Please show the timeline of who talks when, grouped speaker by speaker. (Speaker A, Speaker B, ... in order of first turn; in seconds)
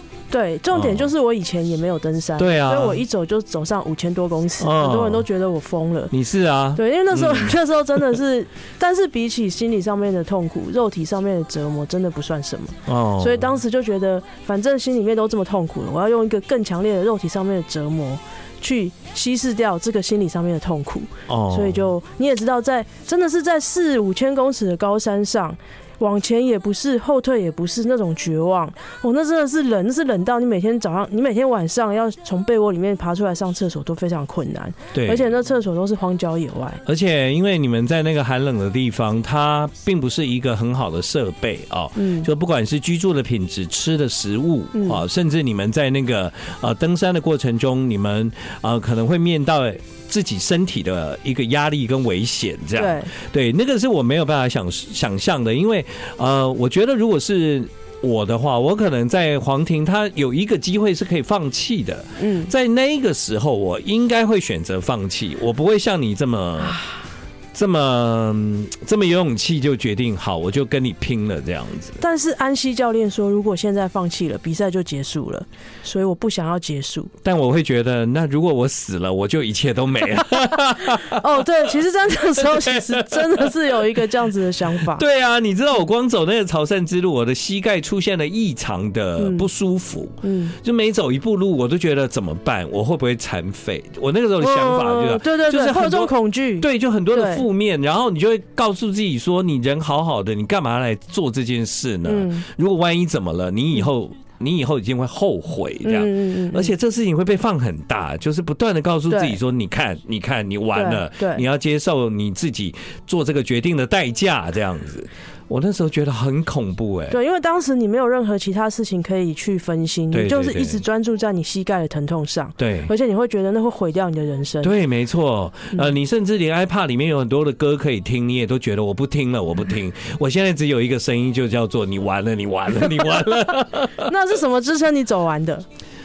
Speaker A: 0.3-6.1, 6.8-36.8, 42.0-42.3, 44.7-45.0, 52.8-53.1, 62.2-62.5, 72.0-77.1, 80.8-85.0, 89.2-89.5, 90.2-90.5, 94.4-97.4, 102.0-102.5, 105.8-106.7, 109.1-109.4, 110.7-111.4, 117.1-124.7, 134.0-135.7
Speaker B: 0.7-1.1, 2.4-3.0, 4.6-5.2, 6.1-7.6, 12.9-13.5, 21.3-21.9, 34.9-35.2, 36.9-66.8, 67.5-72.0, 77.2-81.2, 82.5-83.7, 84.8-117.2, 120.1-120.8, 122.6-122.9, 124.6-134.1